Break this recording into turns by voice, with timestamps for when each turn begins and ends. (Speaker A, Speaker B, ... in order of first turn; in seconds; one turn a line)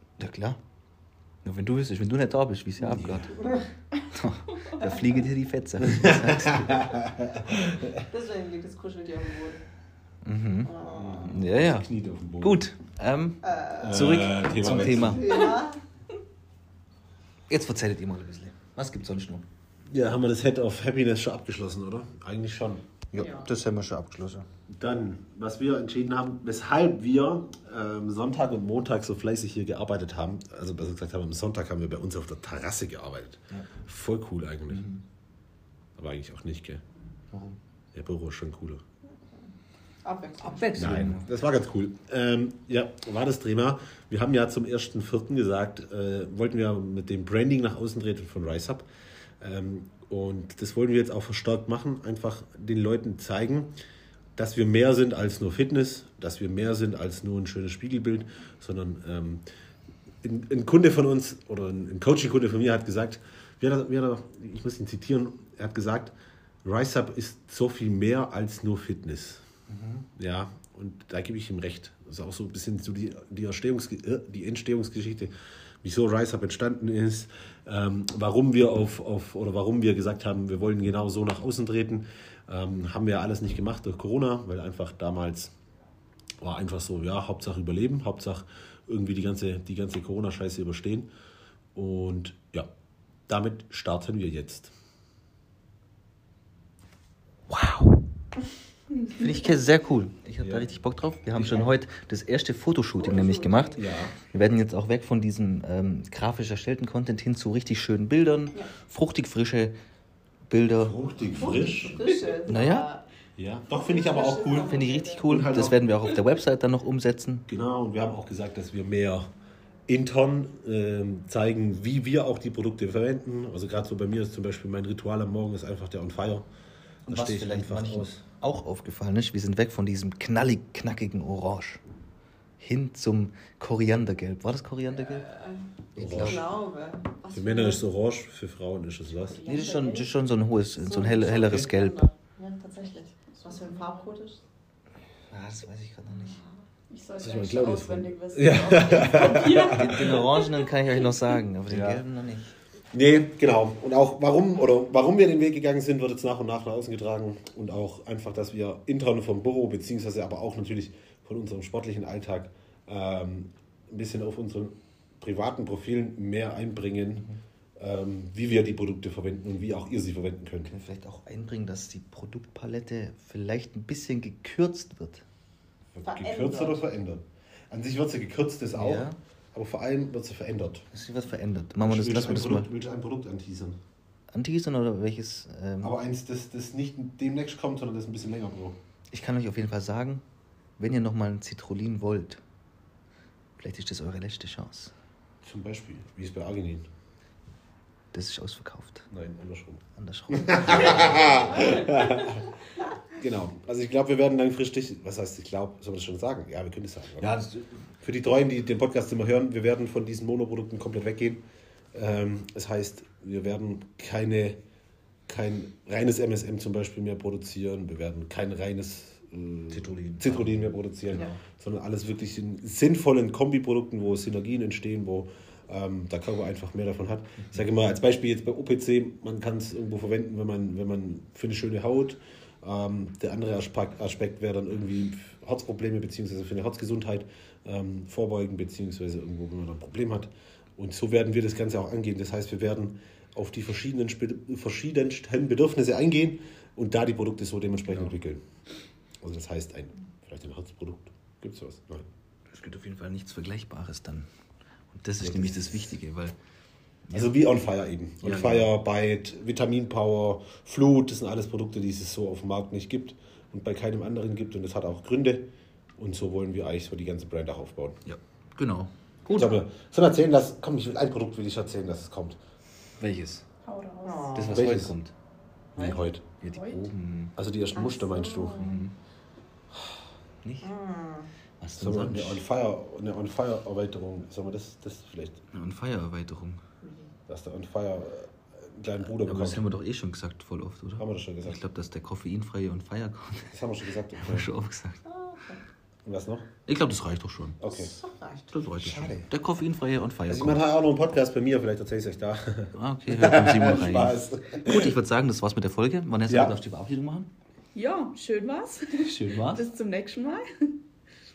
Speaker A: 0.2-0.6
Speaker A: 1.4-3.5
Speaker B: 2.8-3.2
Speaker C: 3.3-3.6
Speaker A: 4.1-6.8
Speaker B: 5.9-7.9
Speaker C: 8.1-9.6
Speaker A: 10.2-11.9
Speaker C: 10.7-11.4
Speaker B: 10.9-12.6
Speaker A: 12.4-15.2
Speaker C: 13.4-14.2
Speaker B: 13.8-15.3
Speaker C: 14.9-15.8
Speaker A: 17.5-19.4
Speaker B: 19.9-22.9
Speaker A: 23.1-24.5
Speaker C: 23.2-23.5
Speaker B: 24.7-34.9
Speaker A: 34.7-35.0
Speaker B: 36.0-36.8
Speaker A: 37.3-37.6
Speaker B: 37.9-38.8
Speaker C: 40.0-40.8
Speaker A: 40.4-41.3
Speaker B: 40.8-48.9
Speaker B: 49.4-53.7
Speaker B: 54.4-59.4
Speaker B: 60.2-66.1
Speaker B: 66.6-69.4
Speaker A: 69.7-70.1
Speaker B: 70.2-85.5
Speaker B: 86.4-91.1
Speaker B: 91.8-92.7
Speaker B: 93.3-94.7
Speaker A: 97.5-98.0
Speaker A: 99.1-109.7
Speaker B: 100.4-101.8
Speaker C: 103.0-103.9
Speaker B: 103.8-104.1
Speaker A: 110.5-111.8
Speaker B: 110.8-112.1
Speaker C: 111.3-113.0
Speaker A: 112.5-112.9
Speaker B: 113.4-115.9
Speaker C: 113.7-115.3
Speaker A: 114.5-117.5
Speaker B: 117.5-119.3
Speaker B: 119.9-126.5
Speaker A: 127.1-131.8
Speaker B: 127.1-128.2
Speaker A: 132.6-135.3
Speaker C: 135.0-137.8
Speaker A: 135.9-136.4
Speaker B: 136.0-136.5
Speaker B: 137.3-139.4
Speaker C: 139.3-140.1
Speaker A: 139.4-142.0
Speaker C: 140.8-144.4
Speaker D: 142.8-144.1
Speaker A: 145.3-146.4
Speaker C: 146.1-146.6
Speaker D: 146.9-150.8
Speaker B: 147.2-150.2
Speaker A: 149.6-152.5
Speaker B: 151.7-152.0
Speaker B: 152.9-170.7
Speaker A: 170.7-175.2
Speaker B: 175.9-180.8
Speaker C: 176.0-176.8
Speaker A: 178.8-179.2
Speaker A: 180.9-182.7
Speaker B: 181.8-183.8
Speaker A: 184.3-185.9
Speaker B: 185.8-188.8
Speaker A: 189.1-190.2
Speaker A: 190.8-192.4
Speaker A: 193.6-194.9
Speaker B: 195.4-196.8
Speaker A: 198.1-199.1
Speaker B: 199.1-202.4
Speaker A: 200.0-201.6
Speaker B: 203.1-207.3
Speaker A: 207.2-207.8
Speaker B: 208.0-214.6
Speaker B: 215.3-248.4
Speaker A: 219.7-221.4
Speaker A: 247.9-248.1
Speaker B: 249.2-252.1
Speaker A: 252.5-254.3
Speaker A: 254.9-256.4
Speaker B: 255.2-255.9
Speaker A: 257.1-257.3
Speaker B: 257.1-268.0
Speaker A: 258.2-258.7
Speaker A: 268.1-268.9
Speaker B: 269.3-272.4
Speaker A: 273.0-273.4
Speaker D: 273.6-274.5
Speaker C: 274.0-274.6
Speaker A: 274.3-275.1
Speaker B: 274.5-274.9
Speaker C: 275.8-276.1
Speaker B: 275.8-276.2
Speaker A: 276.4-277.3
Speaker D: 276.6-276.9
Speaker B: 277.4-278.7
Speaker C: 277.7-278.8
Speaker A: 278.5-278.9
Speaker A: 280.4-280.7
Speaker C: 280.6-281.3
Speaker A: 281.6-282.4
Speaker B: 281.8-285.4
Speaker A: 285.5-286.6
Speaker C: 286.8-287.1
Speaker B: 287.3-289.6
Speaker A: 289.0-293.6
Speaker B: 291.0-291.6
Speaker B: 293.5-294.5
Speaker A: 294.2-295.0
Speaker C: 295.1-295.6
Speaker B: 296.1-296.5
Speaker A: 296.7-297.6
Speaker B: 297.6-297.9
Speaker C: 297.6-298.5
Speaker A: 298.5-300.6
Speaker B: 298.8-299.3
Speaker B: 300.3-305.0
Speaker A: 302.7-307.3
Speaker B: 306.3-306.6
Speaker D: 307.8-310.8
Speaker A: 309.0-309.6